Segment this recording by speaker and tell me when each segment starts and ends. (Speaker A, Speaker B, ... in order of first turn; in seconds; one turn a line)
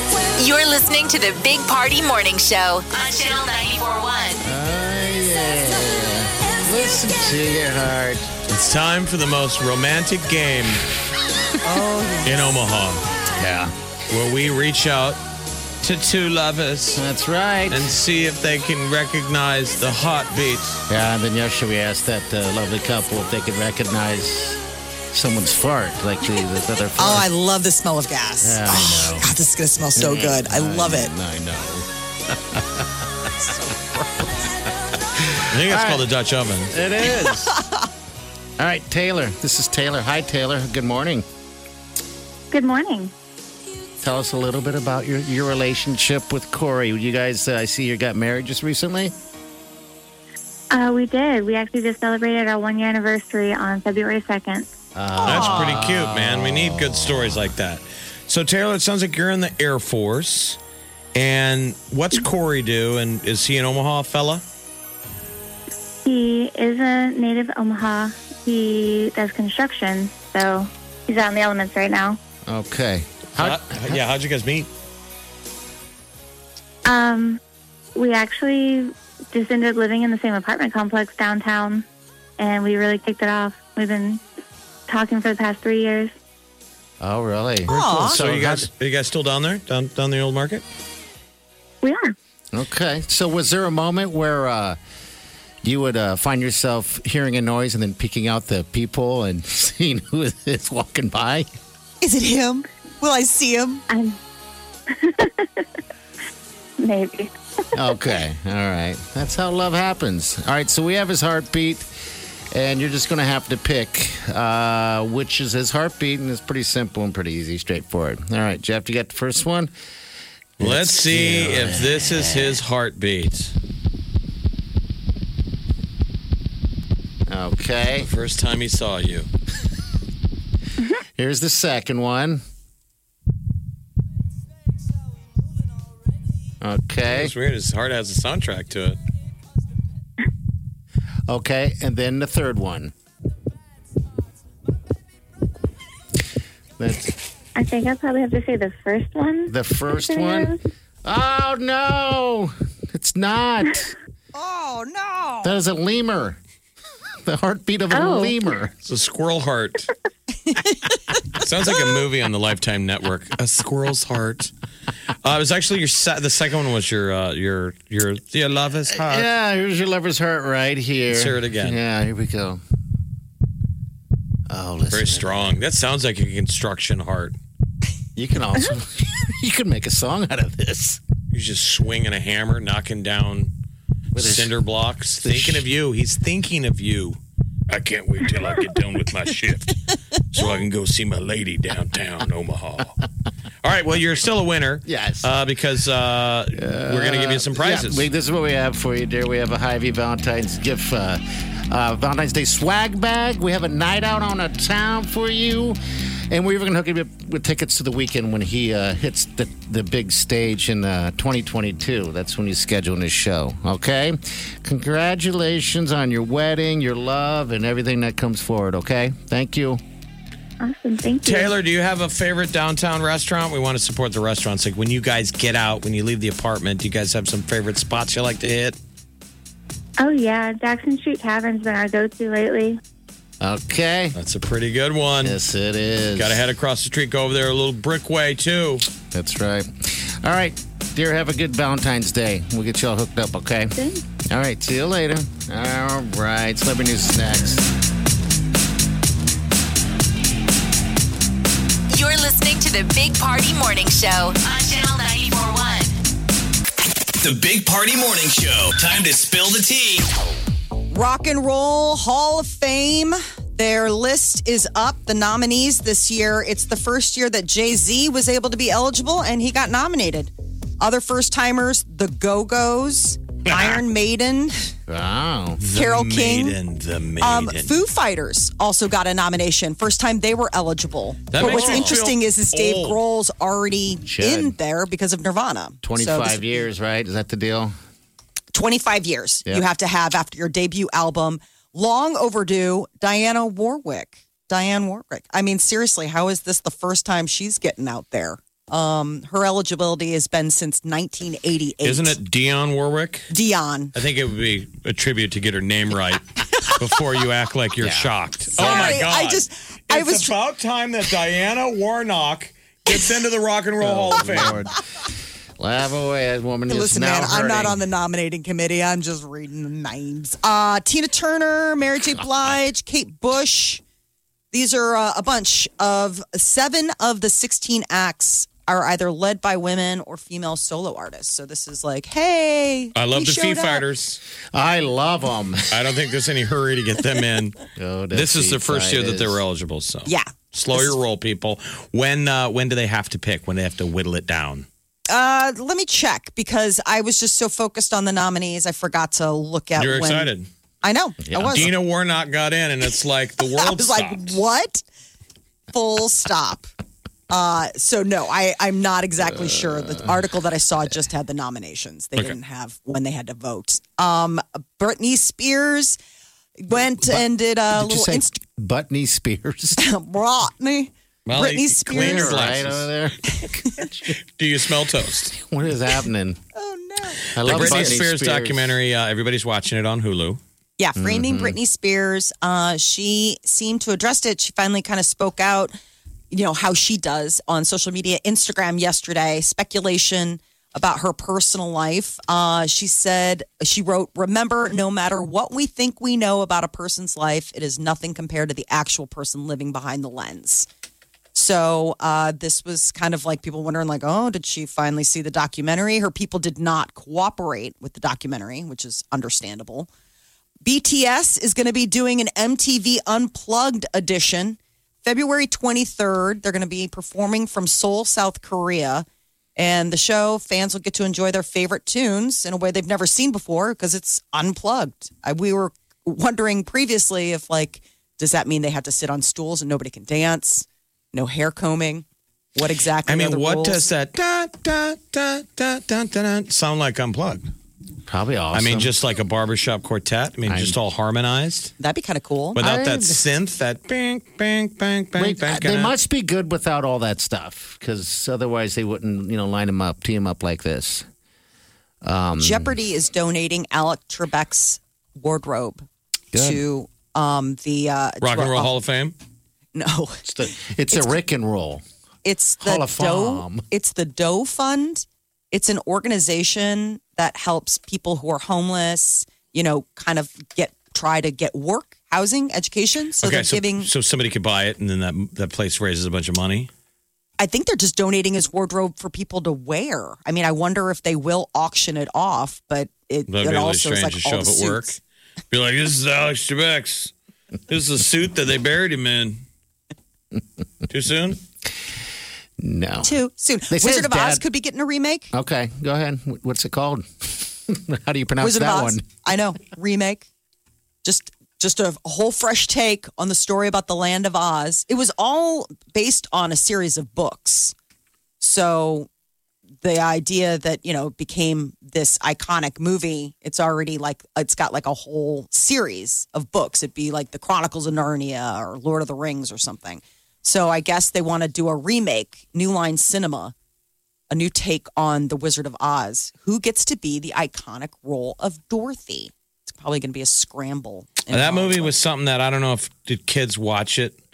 Speaker A: 0.4-4.4
Speaker B: 4.4-8.3
Speaker C: 8.5-10.8
Speaker D: 11.6-12.3
Speaker C: 12.2-13.0
Speaker B: 13.4-13.8
Speaker C: 14.1-15.2
Speaker C: 15.8-17.0
Speaker B: 16.9-17.9
Speaker C: 17.7-20.8
Speaker B: 20.9-27.3
Speaker D: 27.0-31.1
Speaker B: 28.4-29.3
Speaker B: 30.0-34.5
Speaker B: 35.2-36.1
Speaker C: 35.5-36.7
Speaker B: 36.7-37.6
Speaker B: 38.6-41.2
Speaker E: 42.5-43.1
Speaker B: 44.0-49.1
Speaker E: 50.7-54.7
Speaker B: 55.0-57.2
Speaker D: 55.2-55.6
Speaker C: 55.2-60.6
Speaker C: 61.1-64.4
Speaker E: 66.0-72.2
Speaker B: 72.5-74.0
Speaker C: 73.4-74.7
Speaker E: 76.8-77.4
Speaker E: 78.0-81.8
Speaker E: 82.4-84.2
Speaker E: 84.9-86.1
Speaker B: 87.0-88.7
Speaker D: 87.7-88.2
Speaker C: 87.7-90.6
Speaker E: 91.8-92.1
Speaker B: 92.5-94.8
Speaker B: 95.6-101.5
Speaker D: 102.0-103.8
Speaker E: 103.9-104.2
Speaker E: 104.9-105.7
Speaker E: 106.8-107.3
Speaker B: 107.7-111.9
Speaker B: 112.5-119.7
Speaker B: 120.6-122.6
Speaker C: 120.6-123.5
Speaker B: 127.3-128.1
Speaker C: 128.0-129.3
Speaker B: 131.2-132.4
Speaker B: 136.6-137.3
Speaker C: 137.1-139.0
Speaker B: 141.3-142.9
Speaker B: 146.8-147.1
Speaker E: 147.6-150.6
Speaker B: 149.5-153.9
Speaker D: 154.3-155.6
Speaker B: 155.4-156.4
Speaker B: 157.2-158.7
Speaker E: 157.9-158.4
Speaker C: 158.9-159.9
Speaker C: 161.4-164.5
Speaker C: 165.2-169.3
Speaker B: 168.9-172.6
Speaker C: 171.1-171.8
Speaker B: 174.5-175.5
Speaker C: 174.9-177.4
Speaker B: 178.2-181.0
Speaker C: 181.3-183.5
Speaker C: 184.1-189.8
Speaker B: 184.2-184.6
Speaker B: 185.2-185.7
Speaker C: 190.3-193.0
Speaker C: 193.6-198.1
Speaker B: 194.9-195.3
Speaker B: 196.6-205.8
Speaker B: 206.3-219.8
Speaker E: 220.6-221.5
Speaker C: 221.2-228.8
Speaker E: 230.0-232.8
Speaker B: 233.4-234.2
Speaker C: 234.2-235.4
Speaker B: 235.2-236.4
Speaker C: 236.2-238.9
Speaker B: 239.1-247.7
Speaker A: 251.9-256.0
Speaker F: 257.2-260.1
Speaker D: 260.9-274.7
Speaker C: 273.5-273.8
Speaker B: 274.9-275.6
Speaker C: 275.6-277.8
Speaker D: 275.7-276.6
Speaker D: 277.2-286.5
Speaker C: 281.3-283.0
Speaker B: 281.4-282.0
Speaker B: 284.1-284.6
Speaker B: 285.8-287.7
Speaker D: 288.5-302.2
Speaker C: 301.8-303.3
Speaker D: 303.3-303.9
Speaker C: 303.9-314.6
Speaker B: 307.8-309.0
Speaker D: 308.6-310.3
Speaker B: 313.8-314.8
Speaker B: 315.6-317.8
Speaker D: 316.7-323.8
Speaker D: 324.5-333.8
Speaker C: 332.9-334.2
Speaker B: 334.5-335.7
Speaker C: 335.7-337.6
Speaker B: 337.8-339.4
Speaker C: 338.1-344.7
Speaker D: 340.1-341.0
Speaker D: 345.1-350.3
Speaker C: 349.8-350.5
Speaker D: 350.8-351.7
Speaker B: 351.2-351.7
Speaker C: 351.4-354.4
Speaker D: 353.6-354.8
Speaker D: 355.7-356.7
Speaker D: 357.3-366.0
Speaker B: 359.4-360.1
Speaker D: 366.6-368.3
Speaker B: 366.9-369.9
Speaker D: 369.8-372.4
Speaker C: 371.3-372.9
Speaker B: 371.9-374.1
Speaker C: 374.4-375.3
Speaker B: 375.2-376.4
Speaker D: 376.6-378.0
Speaker B: 377.3-378.7
Speaker C: 377.4-380.4
Speaker D: 380.8-385.8
Speaker B: 381.0-381.6
Speaker D: 386.3-400.7
Speaker D: 401.4-409.9
Speaker D: 410.6-419.1
Speaker D: 419.6-432.1
Speaker D: 432.6-433.9
Speaker C: 433.1-437.5
Speaker B: 438.1-438.9
Speaker C: 438.5-441.7
Speaker B: 440.5-440.8
Speaker D: 441.8-442.6
Speaker C: 442.6-445.9
Speaker B: 442.6-443.2
Speaker B: 445.2-451.1
Speaker B: 452.0-452.7
Speaker D: 452.4-458.7
Speaker B: 456.3-456.6
Speaker C: 458.2-459.1
Speaker D: 459.8-461.2
Speaker B: 460.3-461.8
Speaker D: 462.2-473.9
Speaker B: 462.6-463.6
Speaker C: 473.2-476.7
Speaker D: 477.4-484.9
Speaker C: 483.3-485.0
Speaker C: 485.5-487.1
Speaker C: 487.7-489.4
Speaker C: 490.9-491.4
Speaker B: 492.6-493.1
Speaker D: 493.0-495.3
Speaker B: 493.7-494.4
Speaker B: 495.3-499.1
Speaker D: 498.4-500.3
Speaker D: 501.0-507.7
Speaker D: 508.4-509.1
Speaker D: 509.8-523.5
Speaker D: 524.3-531.9
Speaker C: 531.3-534.2